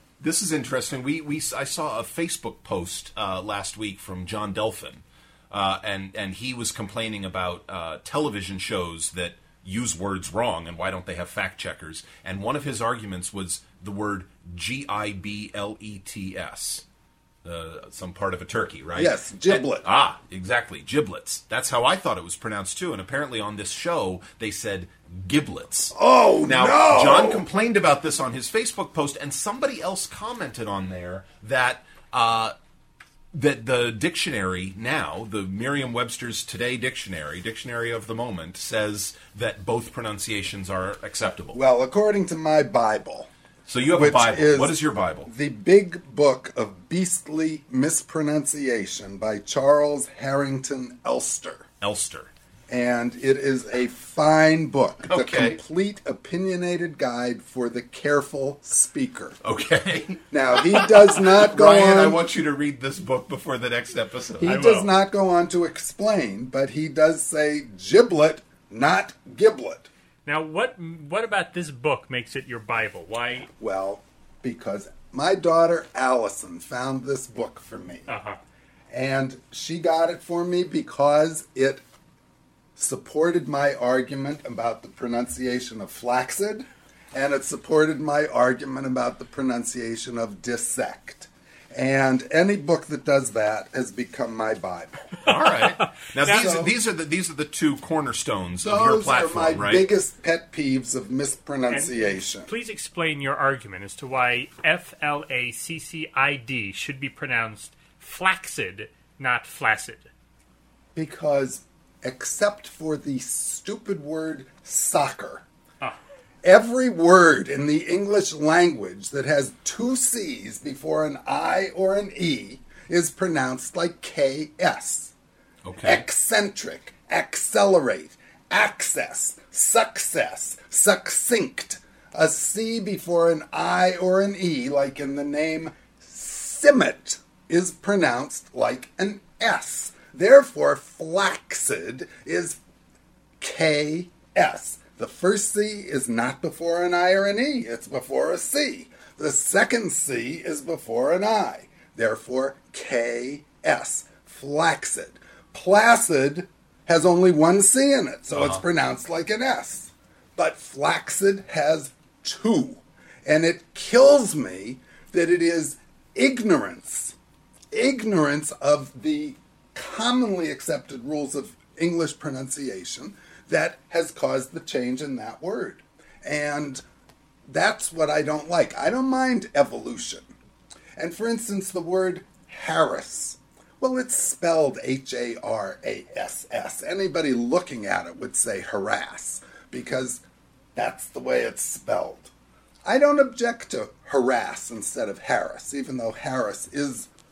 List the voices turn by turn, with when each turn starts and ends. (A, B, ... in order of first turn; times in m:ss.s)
0:00.2-0:16.8 A
0:17.4-0:32.5 A
0:18.9-0:19.8 B
0:25.9-0:27.4 B
0:33.3-0:41.6 A
0:41.5-0:43.3 B
0:43.7-0:45.3 A
0:43.9-0:51.6 B
0:51.8-0:52.3 A
0:52.7-0:59.4 B
0:55.1-0:55.6 A
0:59.4-1:04.5 A
1:00.3-1:02.2 B
1:04.4-1:09.9 B
1:04.4-1:04.9 C
1:10.2-1:13.5 C
1:13.6-1:18.1 B
1:18.1-1:18.4 C
1:18.9-1:21.8 B
1:22.8-1:35.2 B
1:35.2-1:36.6 C
1:35.2-1:39.9 A
1:36.2-1:36.7 B
1:38.6-1:42.5 B
1:41.7-1:50.1 C
1:50.9-1:55.4 B
1:56.4-2:05.1 B
2:05.6-2:06.0 A
2:05.8-2:22.6 B
2:23.4-2:47.2 B
2:38.3-2:38.6 A
2:47.7-2:56.8 B
2:57.5-3:00.3 B
3:01.0-3:10.2 B
3:10.7-3:12.3 B
3:12.8-3:17.1 B